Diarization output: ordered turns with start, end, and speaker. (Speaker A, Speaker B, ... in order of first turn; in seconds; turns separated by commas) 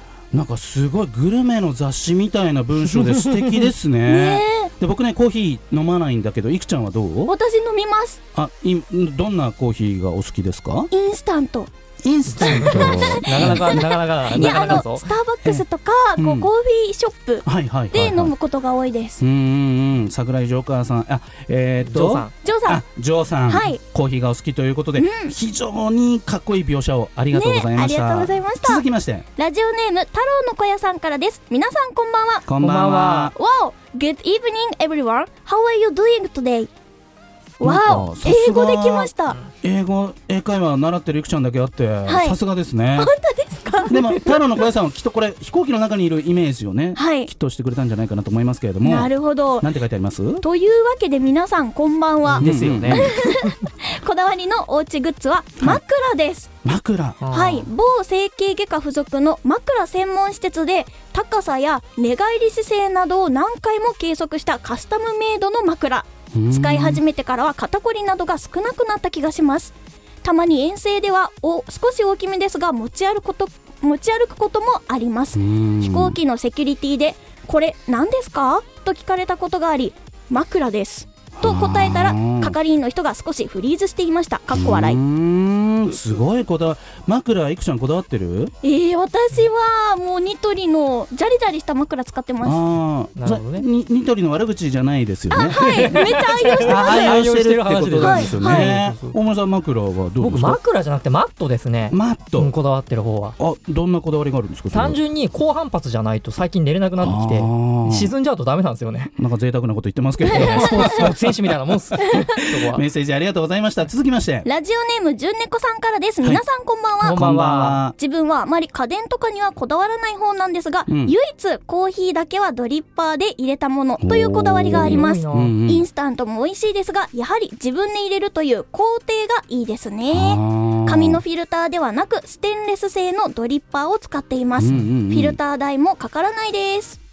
Speaker A: 0.3-7.3, Speaker B: 4.1-4.7, Speaker B: 7.3-8.2, Speaker A: 8.3-10.9, Speaker B: 10.9-11.7, Speaker A: 12.0-14.9, Speaker C: 12.3-15.5, Speaker B: 12.4-19.2, Speaker A: 16.2-16.5, Speaker A: 17.4-18.3, Speaker A: 19.2-29.2, Speaker C: 21.8-22.3, Speaker B: 22.4-22.8, Speaker B: 23.5-23.8, Speaker B: 25.0-25.4, Speaker B: 27.3-28.8, Speaker B: 29.4-32.5, Speaker A: 32.5-33.3, Speaker C: 32.6-33.3, Speaker B: 33.3-36.7, Speaker B: 37.6-39.4, Speaker A: 37.6-39.1, Speaker A: 39.6-43.1, Speaker B: 42.1-42.4, Speaker B: 43.0-44.4, Speaker A: 43.9-50.4, Speaker B: 47.0-47.3, Speaker B: 48.8-49.7, Speaker B: 50.4-56.5, Speaker C: 52.3-53.1, Speaker A: 52.4-53.2, Speaker A: 56.6-57.2, Speaker C: 57.2-57.7, Speaker B: 57.3-85.0, Speaker A: 66.3-67.0, Speaker A: 75.3-76.2, Speaker A: 81.4-82.6, Speaker A: 84.5-88.5, Speaker B: 88.6-92.6, Speaker A: 92.4-100.6, Speaker C: 93.2-93.7, Speaker B: 95.3-97.2, Speaker C: 95.5-99.2, Speaker B: 98.0-98.8, Speaker C: 100.2-103.4, Speaker A: 101.9-102.5, Speaker A: 103.4-105.0, Speaker C: 104.7-109.1, Speaker A: 107.0-108.1, Speaker A: 109.2-114.5, Speaker B: 110.2-111.1, Speaker C: 110.3-112.8, Speaker B: 114.5-117.2, Speaker C: 117.0-117.8, Speaker A: 117.2-118.0, Speaker B: 118.0-137.0, Speaker A: 120.9-121.2, Speaker A: 124.0-125.9, Speaker C: 124.7-125.6, Speaker A: 130.1-131.2, Speaker A: 134.6-135.4